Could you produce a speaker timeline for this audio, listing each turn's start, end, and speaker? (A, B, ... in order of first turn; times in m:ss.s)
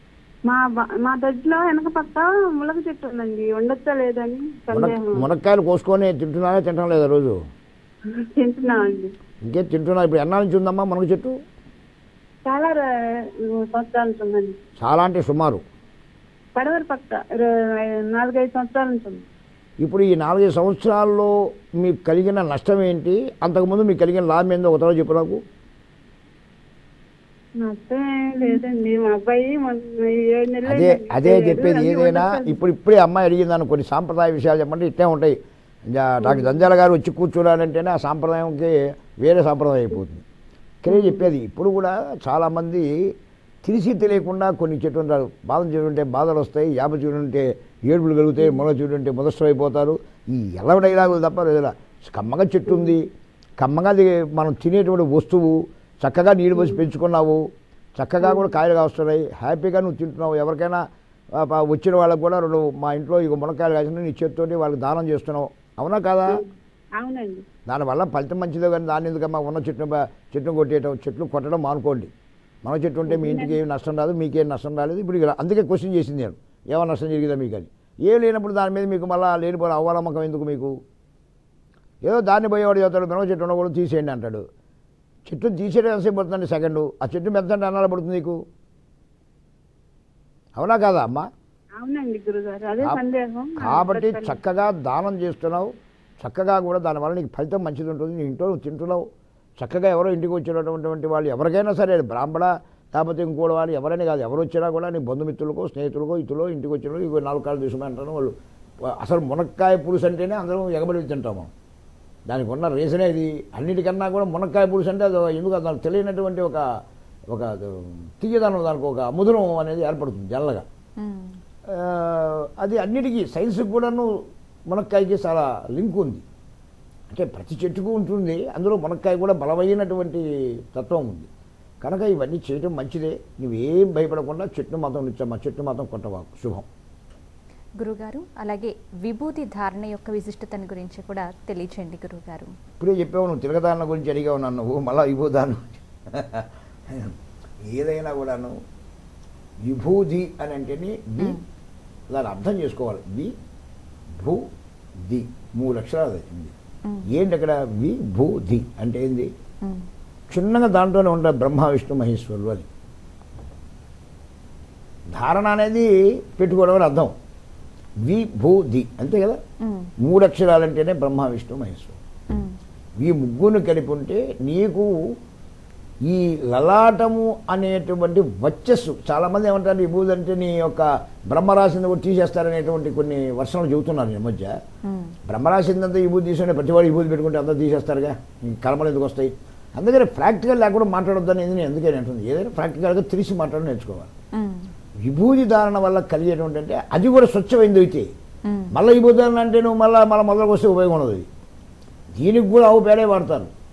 0:00.5-0:05.3 A
0:04.7-0:07.4 B
0:08.1-0:09.1 A
0:09.4-0:11.4 B
0:12.5-0:14.6 A
0:14.8-0:15.6 B
0:16.6-0:19.2 A
0:19.8-0:25.4 B
0:27.6-0:32.6 A
0:30.6-0:35.4 B
0:35.9-0:40.2 B
0:36.2-0:36.5 A
0:40.8-0:42.9 B
0:43.6-0:53.0 B
0:53.6-0:57.4 B
0:58.0-1:06.4 B
1:07.0-1:07.4 A
1:07.7-1:12.1 B
1:12.6-1:20.8 B
1:13.1-1:13.6 A
1:22.0-1:24.5 B
1:25.3-1:28.4 B
1:30.6-1:31.3 B
1:31.8-1:34.4 A
1:33.6-1:39.0 B
1:39.6-1:51.5 B
1:52.3-1:56.7 B
1:57.3-2:00.7 B
2:01.0-2:01.4 C
2:01.7-2:04.1 B
2:04.7-2:06.2 B
2:07.1-2:11.3 B
2:11.8-2:16.7 B
2:17.8-2:22.5 C
2:22.8-2:27.2 B
2:27.7-2:28.6 B
2:29.6-2:31.4 B
2:32.1-2:33.3 B
2:35.0-2:36.5 B
2:37.1-2:39.3 B
2:40.3-2:42.7 B
2:45.1-2:47.1 B
2:48.0-2:49.4 B
2:49.6-2:49.9 C
2:50.0-2:52.0 B
2:52.3-2:52.6 C
2:53.0-2:54.9 B
2:56.0-3:04.6 B
3:04.8-3:05.2 C
3:05.3-3:14.1 B
3:14.3-3:14.7 C
3:15.0-3:18.1 B
3:18.5-3:18.7 C
3:18.7-3:21.3 B
3:22.2-3:23.5 B